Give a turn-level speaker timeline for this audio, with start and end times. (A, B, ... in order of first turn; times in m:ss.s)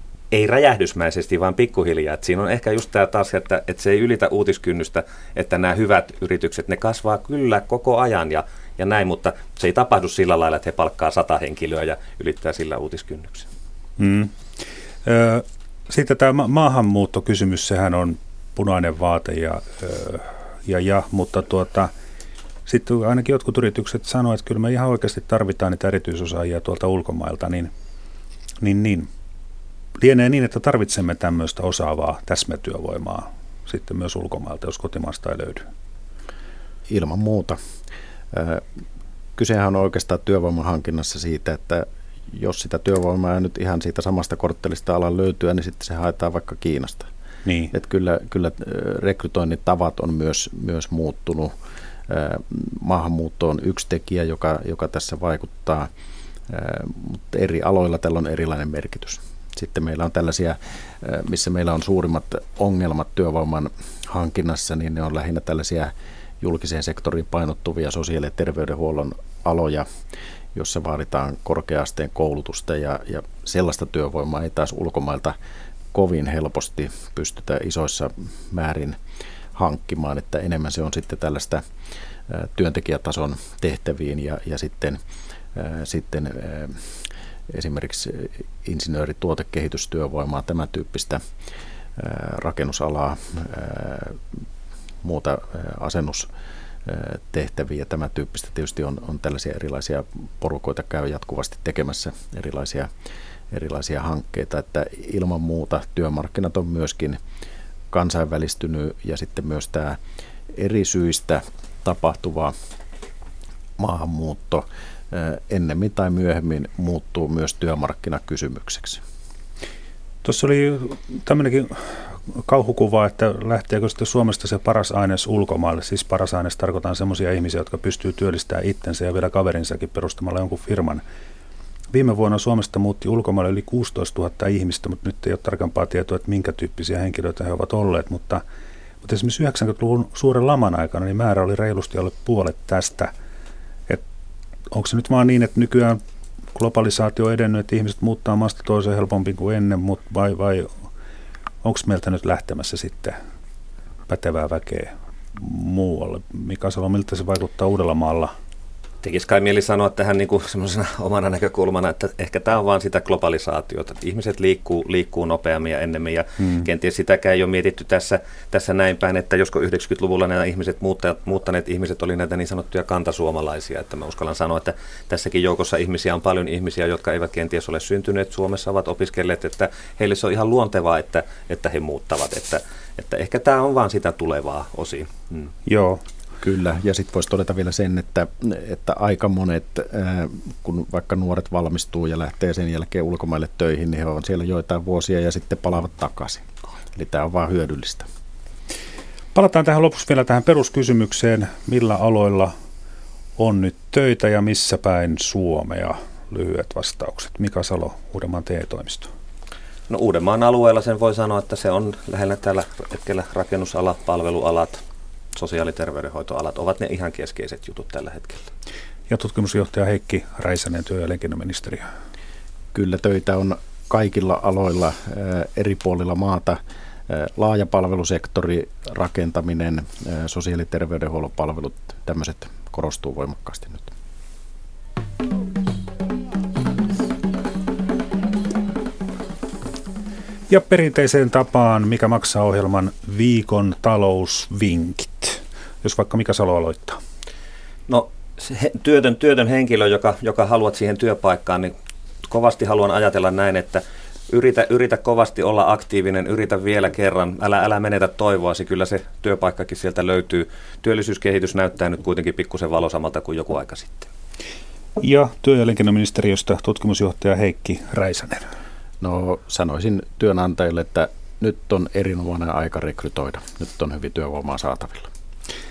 0:00.3-0:13.5 A
0:14.0-0:14.3 B
0:15.0-0:21.9 B
0:22.7-0:27.7 B
0:28.6-0:29.1 B
0:30.0-0:35.7 B
0:36.9-0:37.6 C
0:38.3-0:38.6 C
0:39.4-0:47.1 C
0:47.4-0:47.7 B
0:47.7-0:51.5 C
0:52.1-0:55.9 C
0:56.5-1:09.9 C
1:10.6-1:15.4 C
1:15.9-1:19.0 C
1:19.6-1:21.6 C
1:22.3-1:25.0 C
1:25.6-1:26.9 C
1:27.5-1:31.2 C
1:32.0-1:34.2 C
1:35.0-1:36.3 C
1:36.8-1:42.9 C
1:43.5-1:47.2 C
1:47.9-1:50.0 C
1:50.5-1:52.5 C
1:53.8-1:59.0 C
2:00.2-2:01.8 B
2:02.3-2:11.0 B
2:11.9-2:18.4 B
2:19.0-2:23.1 B
2:24.7-2:26.0 B
2:26.6-2:30.7 B
2:31.6-2:33.2 B
2:34.1-2:38.3 B
2:39.0-3:05.5 A
3:05.7-3:06.0 B
3:06.4-3:18.1 C
3:19.3-3:22.5 B
3:23.4-3:29.1 B
3:29.9-3:34.8 A
3:35.4-3:38.5 A
3:39.1-3:41.9 B
3:42.7-3:53.9 C
4:00.5-4:07.0 B
4:07.9-4:11.7 A
4:12.2-4:24.1 A
4:25.0-4:28.4 B
4:29.0-4:35.1 C